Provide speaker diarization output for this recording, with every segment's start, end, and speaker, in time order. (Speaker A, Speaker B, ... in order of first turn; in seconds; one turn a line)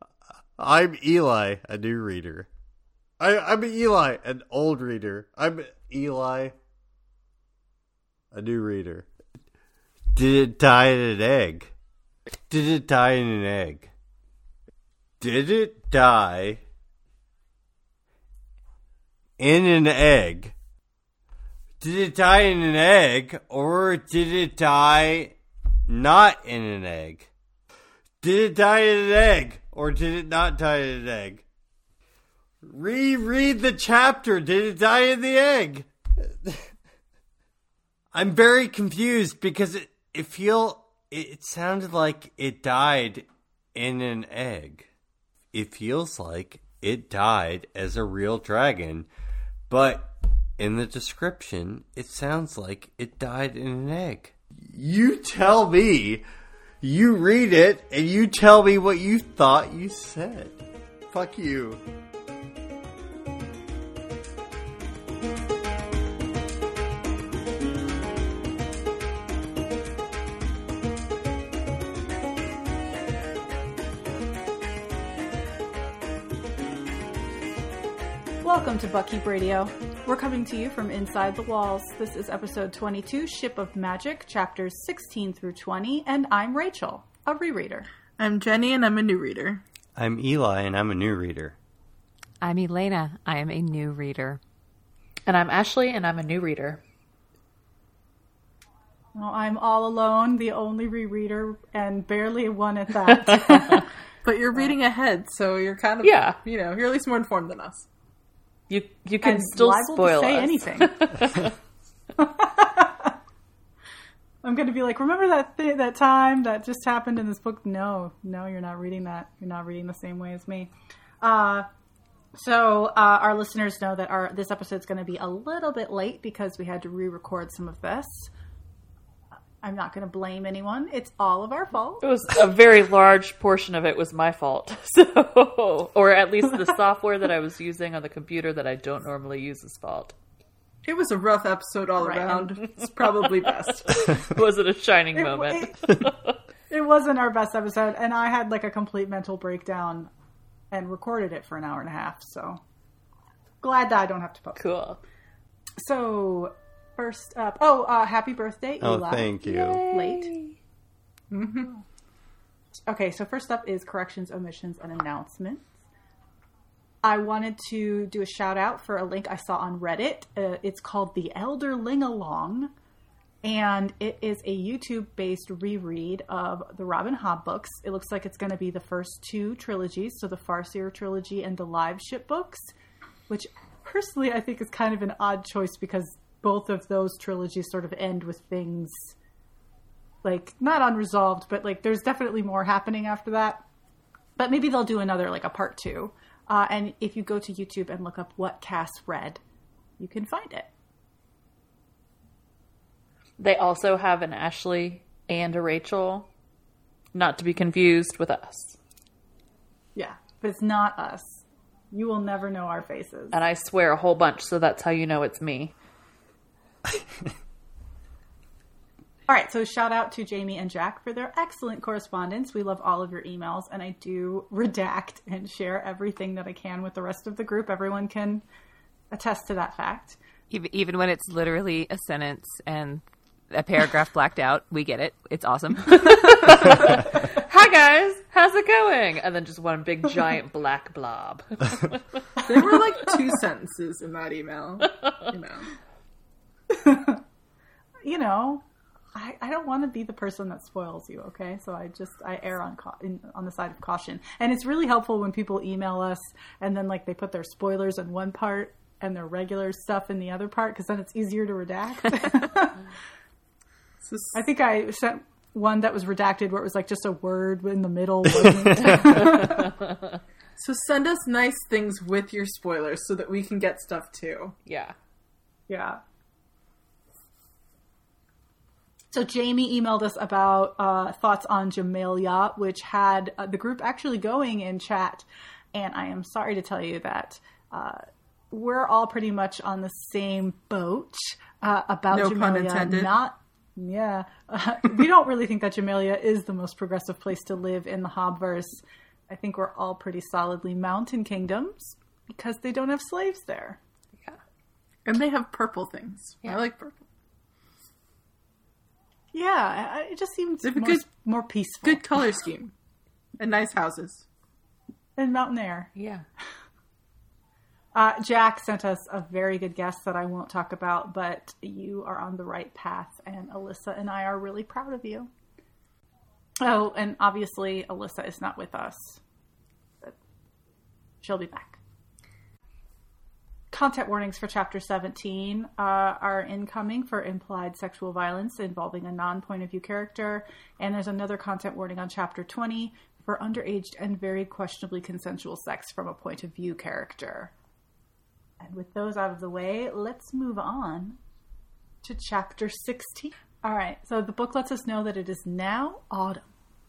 Speaker A: 0.6-2.5
Speaker A: 3.2-6.5
Speaker A: 8.3-9.1
Speaker A: 10.1-11.7
Speaker A: 12.5-13.9
Speaker A: 15.2-16.6
Speaker A: 19.4-20.5
Speaker A: 21.8-27.3
Speaker A: 28.2-31.4
Speaker A: 32.6-36.6
Speaker A: 38.1-44.9
Speaker A: 45.5-49.1
Speaker A: 49.7-56.2
Speaker A: 56.8-60.6
Speaker A: 61.1-61.8
Speaker B: 78.4-87.9
Speaker C: 88.2-89.6
Speaker A: 90.0-91.5
Speaker D: 92.4-94.4
Speaker E: 95.3-96.8
Speaker B: 99.1-103.9
Speaker E: 103.1-103.8
Speaker C: 104.2-107.9
Speaker E: 106.0-106.4
Speaker E: 108.7-111.5
Speaker B: 109.2-111.1
Speaker B: 112.2-113.1
Speaker B: 114.4-120.7
Speaker B: 121.2-121.7
Speaker B: 122.3-128.3
Speaker B: 129.6-132.0
Speaker E: 132.0-140.1
Speaker C: 140.8-144.3
Speaker B: 142.0-142.5
Speaker E: 143.8-146.3
Speaker B: 145.1-146.1
Speaker B: 146.7-150.1
Speaker B: 150.7-152.6
Speaker B: 153.6-154.6
Speaker E: 154.6-155.0
Speaker B: 155.8-159.4
Speaker A: 158.8-159.8
Speaker E: 159.4-160.5
Speaker B: 159.9-160.3
Speaker C: 161.3-161.7
Speaker B: 162.9-165.7
Speaker B: 167.0-172.7
Speaker B: 173.4-182.7
Speaker B: 183.3-189.1
Speaker B: 190.2-193.6
Speaker B: 194.4-199.4
Speaker B: 200.0-200.7
Speaker E: 203.4-206.3
Speaker E: 207.1-208.8
Speaker B: 209.9-213.4
Speaker E: 213.3-215.7
Speaker B: 219.3-228.4
Speaker B: 229.1-230.2
Speaker D: 230.5-236.7
Speaker E: 236.0-242.4
Speaker C: 242.4-245.7
Speaker E: 244.8-245.3
Speaker B: 246.7-247.2
Speaker B: 248.0-248.6
Speaker B: 249.1-262.8
Speaker C: 264.0-264.3
Speaker B: 264.3-269.8
Speaker E: 269.1-269.9
Speaker C: 270.6-274.5
Speaker E: 274.7-274.9
Speaker B: 275.7-276.0
Speaker B: 279.1-303.8
Speaker C: 292.1-293.1
Speaker C: 305.1-307.0
Speaker B: 309.3-312.0
Speaker C: 310.6-311.1
Speaker C: 311.8-312.7
Speaker C: 313.4-314.2
Speaker B: 315.2-315.9
Speaker E: 315.9-316.2
Speaker B: 317.9-325.3
Speaker B: 326.6-329.2
Speaker B: 331.2-331.8
Speaker B: 333.7-347.5
Speaker B: 348.6-351.2
Speaker B: 352.0-356.5